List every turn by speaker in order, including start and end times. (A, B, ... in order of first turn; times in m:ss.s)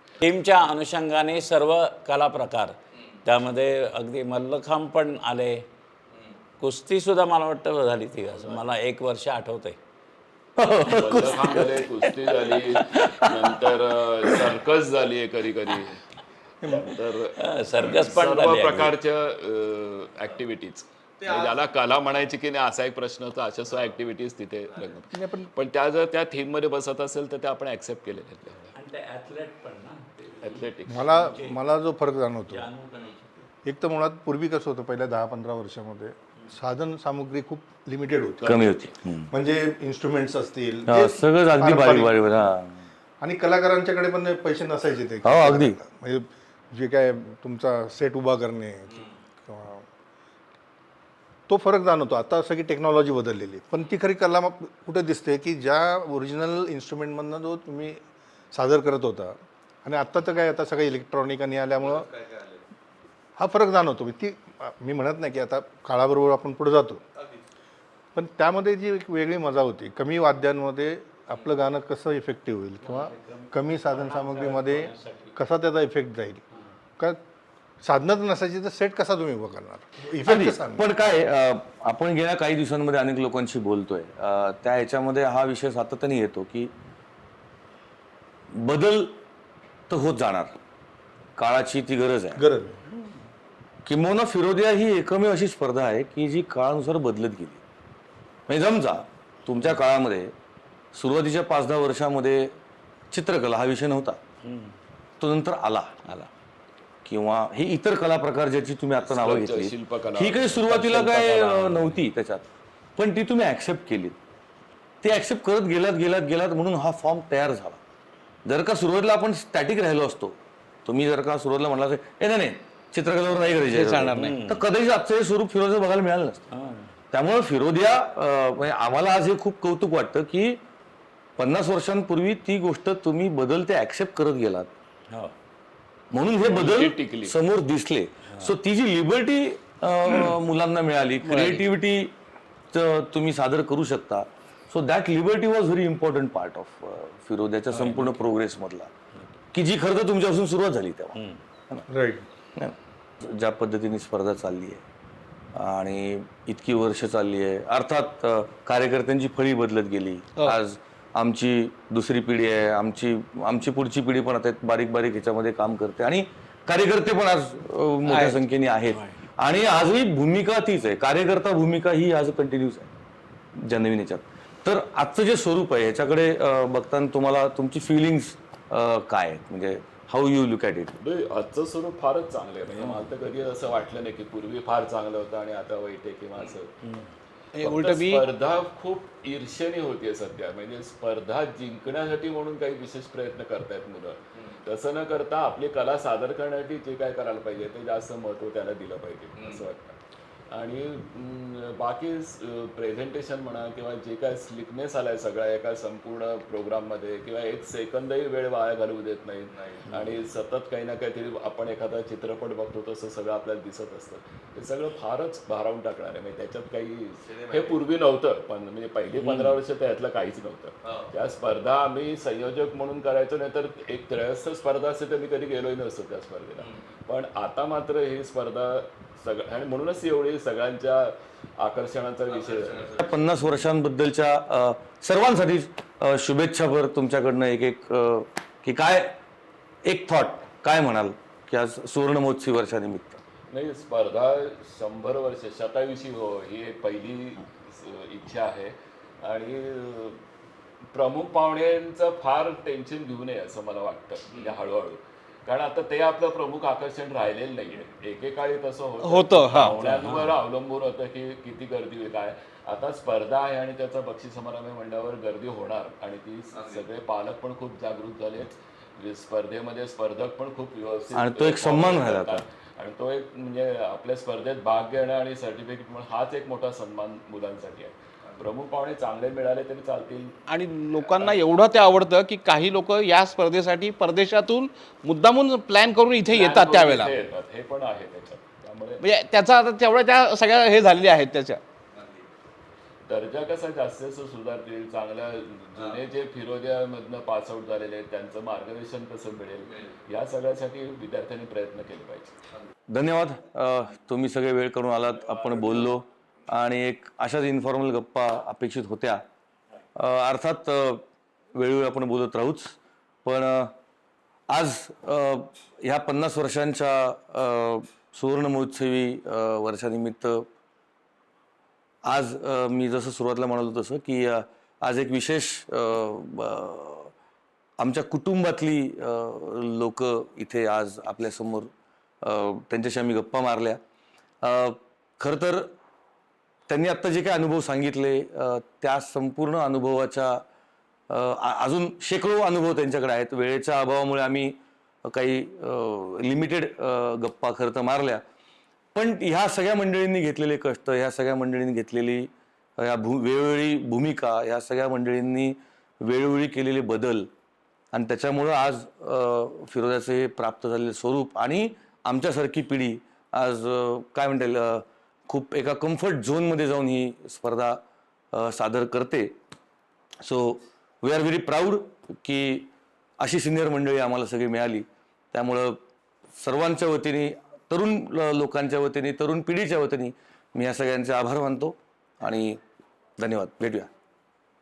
0:00.2-0:05.6 A
0:06.6-0:09.8 A
0:10.6-0:14.5 B
0:10.9-0:16.0 C
0:16.6-0:17.0 D
0:16.7-0:28.7 C
0:17.3-0:18.9 A
0:25.1-0:25.5 D
0:28.7-0:31.6 A
0:30.4-0:31.1 C
0:30.9-0:32.7 D
0:32.5-0:33.4 A
0:33.6-0:38.6 D
0:38.4-0:38.8 C
0:38.4-0:39.3 B
0:39.3-0:42.1 D
0:40.9-0:42.8 B
0:43.2-0:49.9 D
0:45.2-0:45.8 B
0:51.5-0:58.0 D
0:58.5-1:02.2 D
1:03.4-1:07.0 D
1:08.2-1:16.4 D
1:12.8-1:15.3 A
1:17.8-1:20.9 D
1:20.2-1:26.7 B
1:28.5-1:29.2 B
1:29.9-1:30.6 B
1:31.4-1:32.4 B
1:32.4-1:32.8 D
1:33.8-1:37.6 B
1:38.5-1:40.3 B
1:40.9-1:42.5 B
1:43.1-1:44.2 B
1:44.4-1:44.8 A
1:45.2-1:46.0 B
1:47.0-1:54.2 B
1:49.0-1:51.8 C
1:55.0-1:57.8 B
1:58.4-2:06.5 B
2:03.7-2:04.4 E
2:04.2-2:04.6 A
2:06.5-2:06.9 A
2:07.1-2:10.6 B
2:11.4-2:14.7 B
2:16.1-2:22.1 B
2:16.4-2:17.4 C
2:21.2-2:21.6 E
2:22.7-2:28.9 B
2:27.7-2:28.1 A
2:29.5-2:31.2 B
2:31.2-2:31.4 A
2:31.9-2:32.2 D
2:32.6-2:34.8 B
2:35.5-2:52.9 B
2:48.1-2:48.4 E
2:48.9-2:49.2 A
2:53.6-3:01.0 B
3:01.0-3:06.8 C
3:07.6-3:08.2 E
3:07.6-3:20.0 C
3:20.5-3:53.1 C
3:39.2-3:39.6 A
3:53.0-3:59.2 B
3:59.8-4:03.2 B
4:03.5-4:10.2 C
4:10.9-4:40.4 C
4:19.0-4:19.7 E
4:19.7-4:20.4 A
4:31.1-4:32.4 B
4:40.5-4:47.1 E
4:46.3-4:49.0 C
4:49.0-4:51.6 E
4:53.1-5:02.4 C
5:02.9-5:09.2 B
5:10.0-5:13.7 B
5:14.5-5:20.5 B
5:22.0-5:27.1 B
5:27.8-5:31.7 B
5:32.2-5:33.8 B
5:34.4-5:35.7 B
5:36.7-5:40.4 B
5:41.1-5:48.2 B
5:48.9-5:57.3 B
5:57.9-6:07.8 B
6:08.3-6:09.4 B
6:10.2-6:12.7 B
6:13.2-6:15.8 B
6:16.4-6:22.6 B
6:23.2-6:23.9 B